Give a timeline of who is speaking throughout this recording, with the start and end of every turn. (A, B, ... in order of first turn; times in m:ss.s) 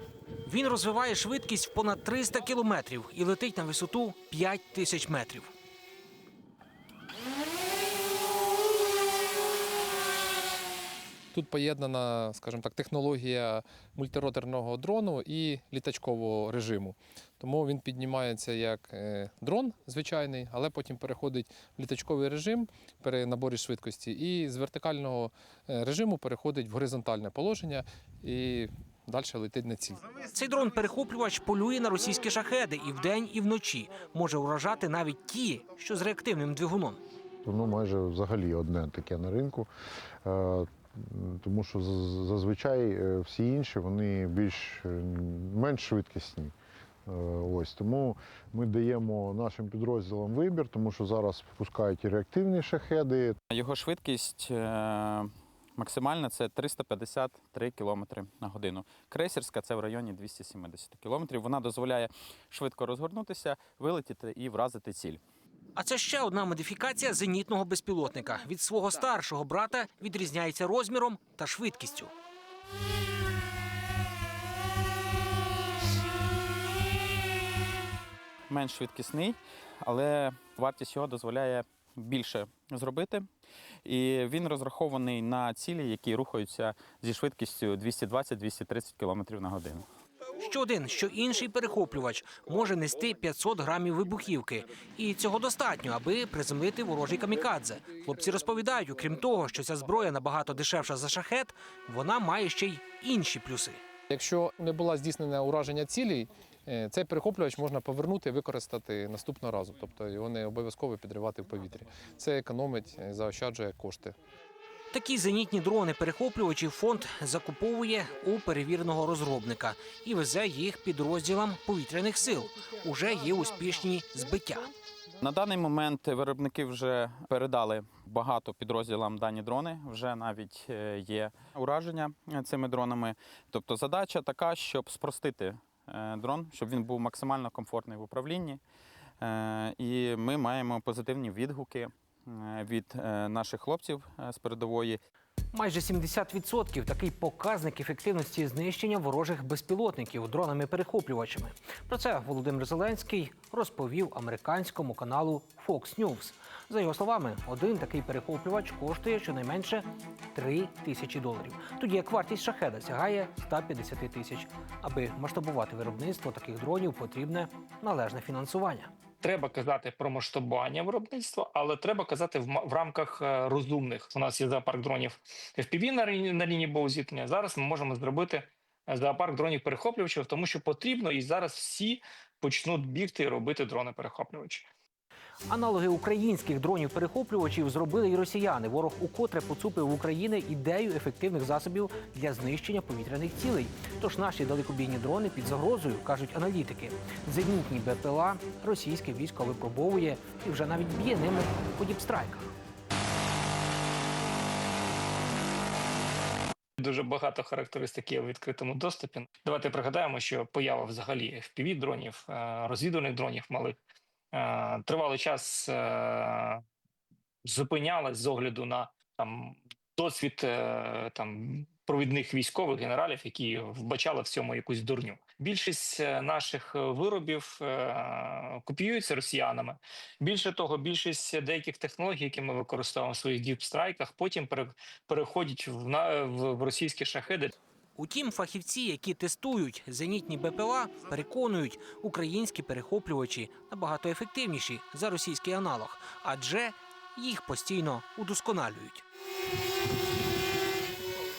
0:00.4-0:05.5 A
0:11.3-0:30.1 B
0:30.2-0:37.0 A
0:37.4-0:39.7 C
0:40.2-0:46.5 C
0:47.1-0:53.4 C
0:53.5-1:05.2 D
1:05.8-1:12.1 A
1:18.5-1:23.3 D
1:23.8-1:29.8 D
1:30.3-1:43.8 A
1:44.1-1:54.2 B
1:54.9-2:04.7 A
2:05.2-2:18.6 D
2:19.2-2:25.0 D
2:25.5-2:48.9 A
2:49.2-3:04.7 E
3:05.5-3:22.5 A
3:26.8-3:33.8 E
3:34.3-3:36.6 E
3:37.4-3:57.6 E
3:58.0-4:09.0 A